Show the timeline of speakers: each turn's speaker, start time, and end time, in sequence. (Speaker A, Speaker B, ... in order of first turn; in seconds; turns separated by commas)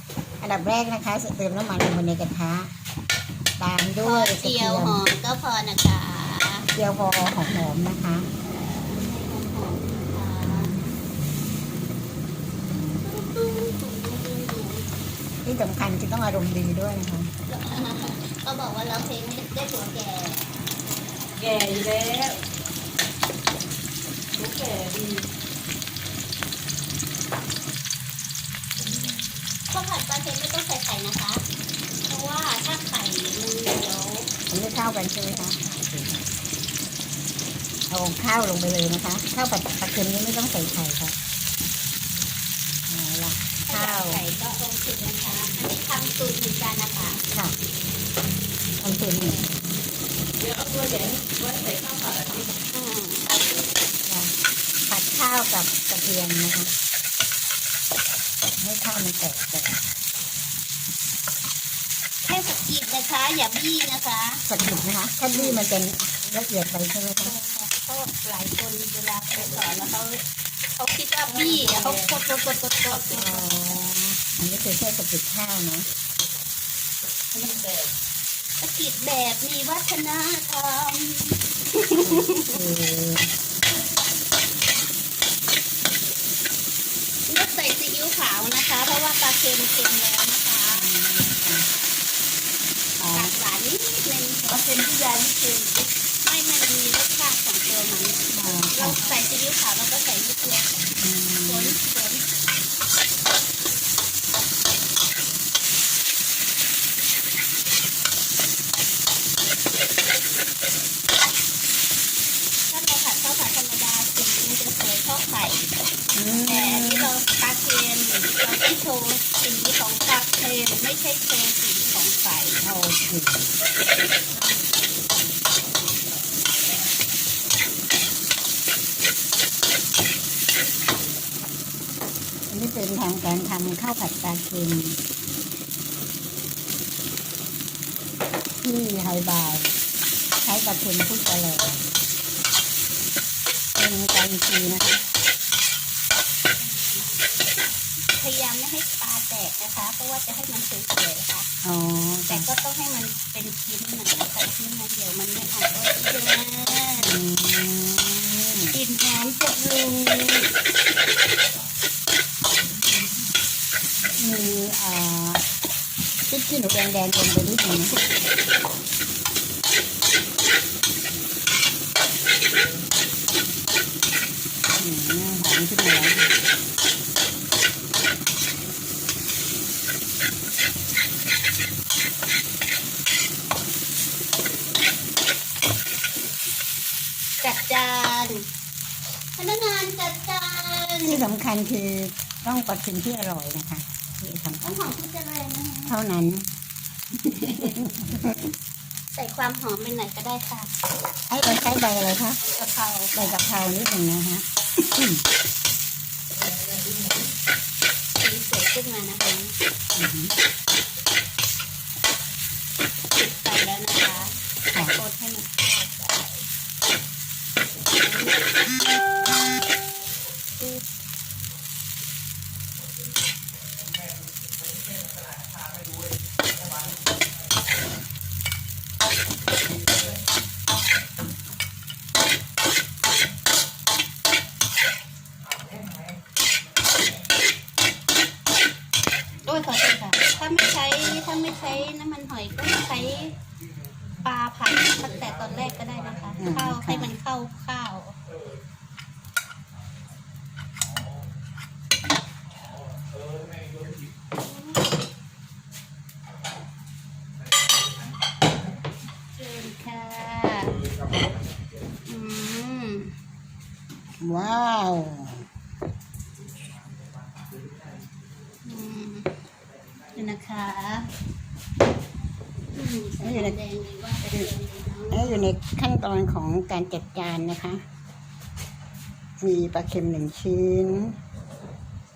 Speaker A: 0.4-2.7, Speaker A: 3.6-5.0, Speaker B: 4.0-6.7, Speaker A: 6.8-8.3, Speaker B: 8.4-10.7, Speaker B: 12.7-14.9, Speaker A: 15.4-17.3, Speaker B: 17.5-20.4, Speaker C: 21.4-22.4, Speaker C: 24.3-25.3, Speaker B: 29.7-31.4, Speaker B: 32.1-34.3, Speaker A: 34.5-36.2, Speaker A: 37.9-41.2, Speaker A: 42.9-44.2, Speaker B: 43.6-47.2, Speaker A: 48.8-49.5, Speaker C: 50.4-52.5, Speaker B: 52.7-53.4, Speaker A: 54.1-54.3, Speaker A: 54.9-56.7, Speaker A: 58.6-59.8, Speaker B: 62.2-64.4, Speaker A: 64.5-67.3, Speaker B: 65.3-65.6, Speaker B: 67.2-70.2, Speaker B: 70.8-73.6, Speaker C: 71.3-72.2, Speaker A: 73.0-75.9, Speaker C: 77.3-77.9, Speaker B: 78.6-82.6, Speaker A: 82.0-83.3, Speaker B: 87.3-90.9, Speaker A: 90.7-91.7, Speaker A: 93.0-93.3, Speaker B: 93.1-94.6, Speaker C: 94.5-95.9, Speaker B: 96.2-100.8, Speaker A: 98.3-99.0, Speaker A: 101.0-101.8, Speaker B: 101.4-102.3, Speaker B: 112.7-115.7, Speaker A: 116.1-117.1, Speaker B: 116.3-122.6, Speaker A: 122.6-123.5, Speaker A: 132.5-135.0, Speaker A: 138.6-139.7, Speaker A: 140.4-141.8, Speaker A: 143.8-145.0, Speaker B: 146.6-147.3, Speaker B: 148.2-151.5, Speaker A: 151.6-152.5, Speaker B: 152.2-157.1, Speaker A: 157.0-158.7, Speaker B: 158.7-160.5, Speaker A: 164.2-165.4, Speaker A: 166.3-167.9, Speaker A: 174.8-176.3, Speaker B: 187.4-188.4, Speaker B: 189.4-191.2, Speaker A: 191.0-194.8, Speaker B: 194.6-195.9, Speaker A: 195.9-196.5, Speaker A: 197.3-198.5, Speaker B: 199.1-200.7, Speaker A: 201.3-202.4, Speaker B: 202.6-203.3, Speaker A: 203.1-205.2, Speaker C: 206.4-206.9, Speaker B: 208.2-209.5, Speaker A: 209.9-210.3, Speaker B: 213.1-216.5, Speaker B: 218.1-218.4, Speaker B: 239.4-243.4, Speaker B: 244.2-248.2, Speaker A: 246.4-247.1, Speaker B: 254.4-254.9, Speaker B: 259.4-260.8, Speaker B: 262.1-263.1, Speaker A: 264.2-265.4, Speaker B: 268.6-269.4, Speaker B: 270.1-271.1, Speaker B: 272.7-275.5, Speaker A: 273.2-273.6, Speaker A: 275.1-277.8, Speaker A: 279.4-281.2